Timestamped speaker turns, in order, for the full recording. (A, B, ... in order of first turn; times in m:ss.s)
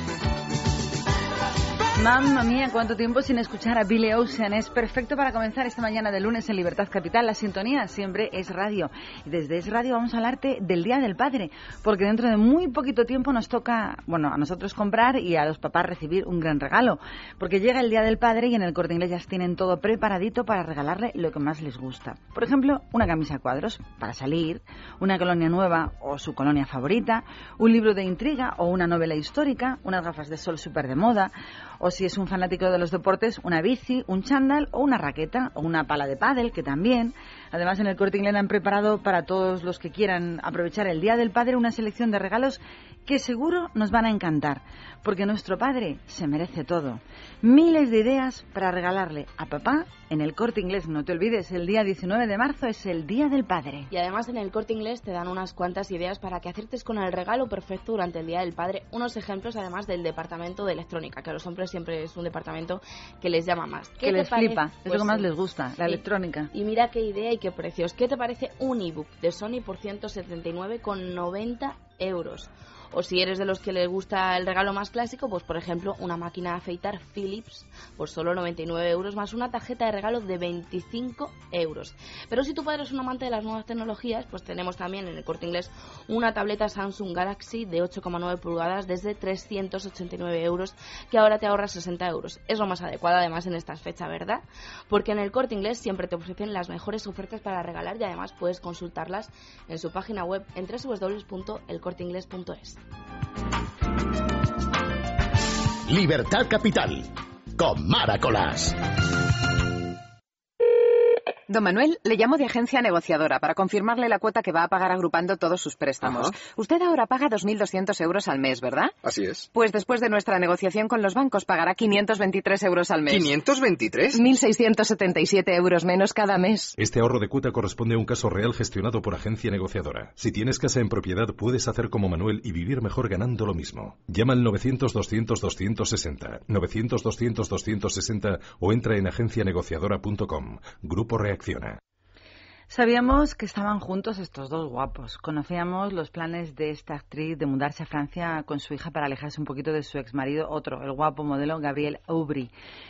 0:02.0-0:53.9 A
0:53.9-1:05.3 B
1:04.0-1:06.5 A
1:06.5-1:42.8 B
1:45.9-1:48.8 C
1:51.5-1:58.9 D
1:56.0-1:56.3 E
1:59.0-1:59.5 E
1:59.5-2:03.4 D
2:03.1-2:04.2 E
2:04.1-2:06.7 D
2:06.8-2:21.8 F
2:22.7-2:32.5 A